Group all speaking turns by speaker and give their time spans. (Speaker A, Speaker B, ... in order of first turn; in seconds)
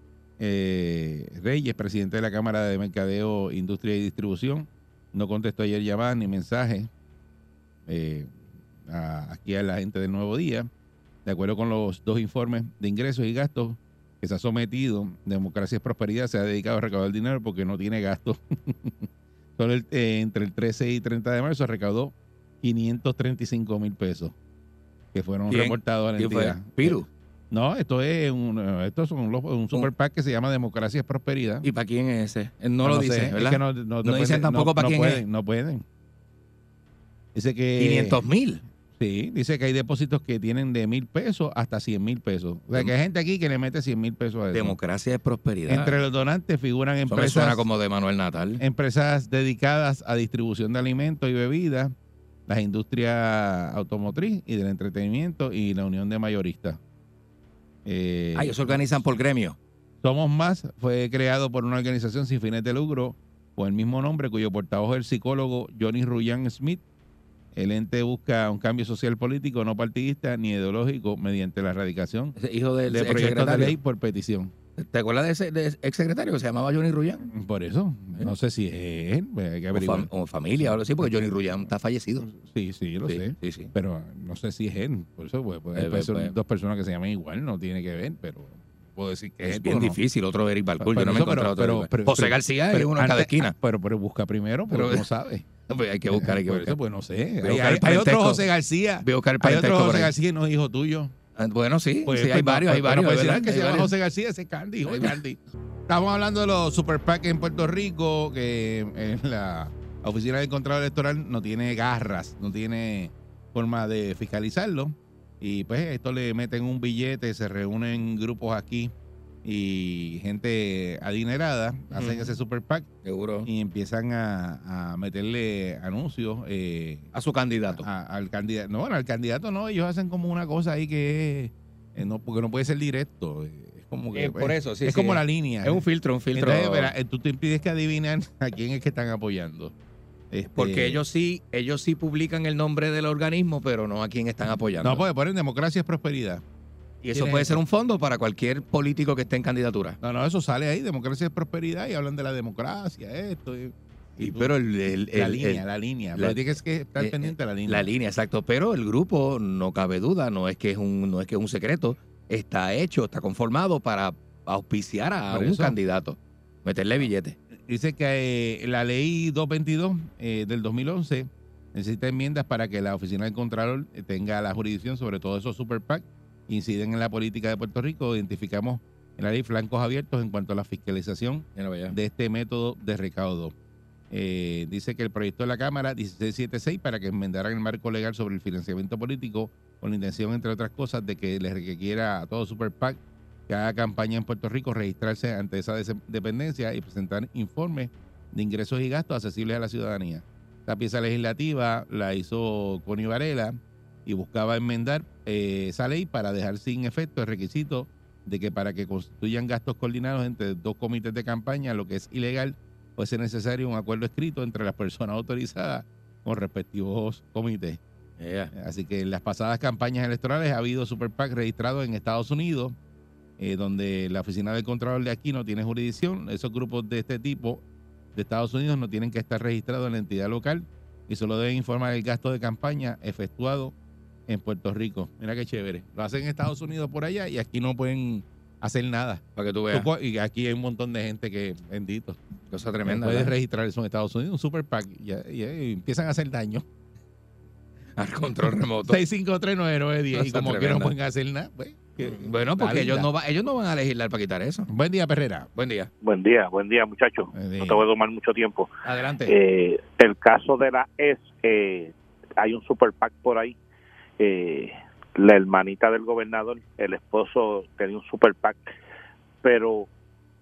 Speaker A: 0.4-6.9, 7.9-8.3, 8.9-10.7, 11.2-24.4, 25.1-31.6, 32.8-35.8, 37.4-38.2, 39.0-44.8, 45.7-47.6, 48.6-51.9, 52.5-56.8, 57.9-59.0, 60.0-66.8, 67.5-72.4, 72.9-74.5, 77.3-80.1, 81.0-81.6, 82.2-90.0, 90.8-95.5, 96.1-101.1, 102.0-118.9, 119.4-122.9, 123.5-127.1, 127.7-135.8, 136.3-139.7, 140.3-141.0, 144.8-146.4, 147.1-147.6, 150.0-154.5, 155.1-157.9, 165.3-165.8, 167.7-183.5, 184.1-217.8, 218.5-222.8, 223.4-227.6, 228.1-233.7, 234.3-242.2, 242.8-246.6, 248.9-253.1, 254.7-255.5, 257.3-257.8
Speaker B: 25.5-27.1, 31.6-35.2, 37.8-38.6, 44.5-46.0, 47.1-48.6, 58.4-59.6, 72.4-73.8, 74.8-77.3, 79.7-82.3, 83.1-83.7, 85.8-86.3, 89.4-93.5, 94.7-95.1, 95.7-96.8, 97.4-98.4, 99.0-100.1, 101.4-103.9, 104.9-105.2, 121.9-122.4, 123.0-123.5, 127.1-127.8, 134.2-136.9, 140.6-145.0, 147.0-150.0, 154.2-155.6, 156.2-156.4, 157.0-167.4, 181.6-181.9, 218.2-218.5, 239.4-239.9, 242.5-243.3, 248.0-249.0, 250.1-250.9, 252.0-254.7, 255.6-255.9, 258.9-259.3
Speaker C: 256.0-258.7, 259.3-263.6, 264.2-268.7, 269.4-269.9